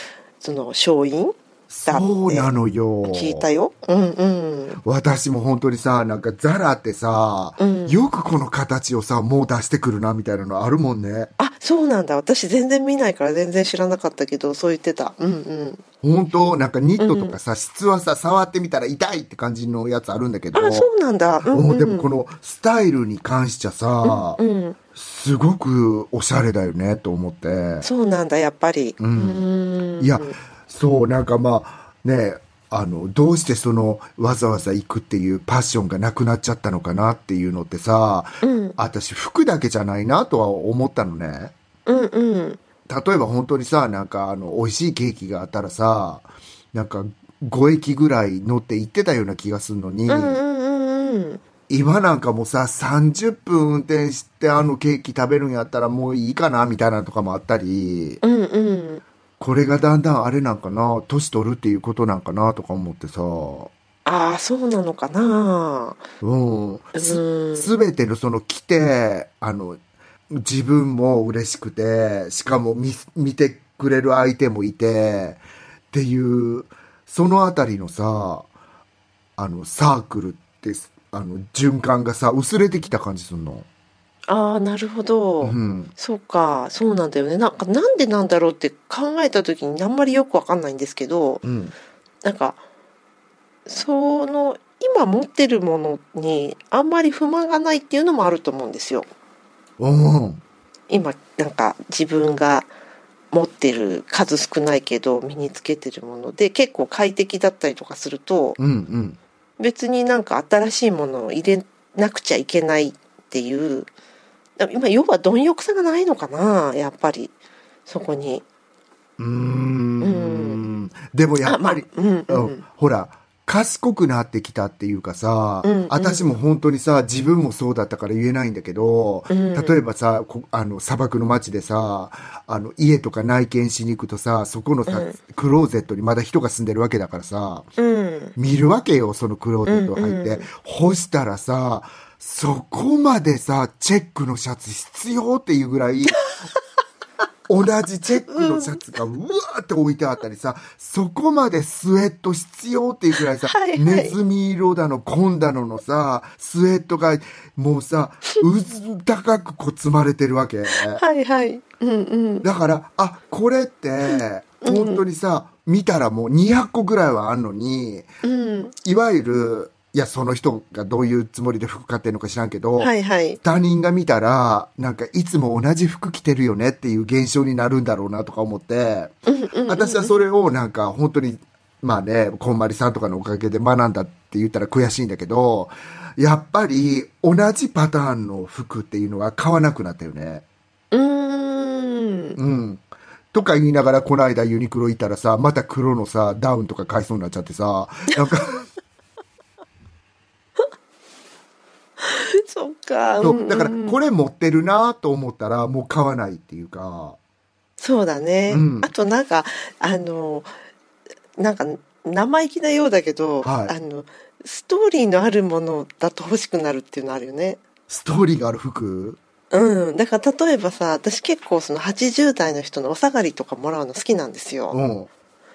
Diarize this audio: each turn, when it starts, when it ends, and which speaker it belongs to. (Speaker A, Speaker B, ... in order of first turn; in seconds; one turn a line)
Speaker A: 0.4-2.5
Speaker B: 1.7-3.5
Speaker A: 3.0-4.8
Speaker B: 4.8-11.3
Speaker A: 7.6-8.0
Speaker A: 11.4-15.8
Speaker B: 16.0-20.9
Speaker A: 17.0-17.4
Speaker A: 20.5-22.1
Speaker B: 21.5-24.4
Speaker A: 24.0-24.8
Speaker B: 24.9-27.9
Speaker A: 27.8-30.4
Speaker B: 29.0-29.4
Speaker B: 30.0-41.5
Speaker A: 38.4-38.8
Speaker A: 41.9-42.6
Speaker B: 42.9-50.4
Speaker A: 50.1-51.4
Speaker B: 51.7-58.2
Speaker A: 58.2-59.0
Speaker B: 59.4-63.7
Speaker A: 64.1-66.0
Speaker B: 66.2-69.8
Speaker A: 67.0-67.7
Speaker B: 70.3-75.4
Speaker B: 75.9-78.5
Speaker B: 79.4-83.7
Speaker A: 84.3-91.4
Speaker B: 85.4-85.9
Speaker B: 91.4-91.7
Speaker A: 92.2-92.6
Speaker A: 93.7-99.1
Speaker B: 99.8-100.4
Speaker A: 100.9-102.7
Speaker A: 103.3-108.6
Speaker B: 108.6-109.2
Speaker A: 109.6-113.9
Speaker A: 114.6-117.3
Speaker A: 117.9-118.5
Speaker B: 119.2-137.7
Speaker A: 120.0-120.6
Speaker A: 121.4-122.6
Speaker A: 125.6-126.3
Speaker A: 129.3-129.8
Speaker A: 134.9-135.2
Speaker A: 137.8-138.3
Speaker B: 138.4-146.2
Speaker A: 139.7-140.5
Speaker B: 147.5-161.0
Speaker A: 148.2-148.8
Speaker A: 153.4-154.2
Speaker A: 160.9-162.5
Speaker B: 162.4-168.1
Speaker A: 164.6-165.0
Speaker A: 168.2-168.7
Speaker B: 168.8-179.2
Speaker A: 172.8-173.4
Speaker A: 179.3-180.1
Speaker B: 179.7-190.4
Speaker A: 190.9-192.4
Speaker B: 192.4-198.7
Speaker A: 202.0-204.0
Speaker B: 203.2-207.2
Speaker A: 207.8-210.5
Speaker B: 208.5-208.9
Speaker A: 211.4-217.6
Speaker B: 213.4-213.7
Speaker B: 217.9-219.2
Speaker A: 219.5-224.8
Speaker B: 224.7-225.1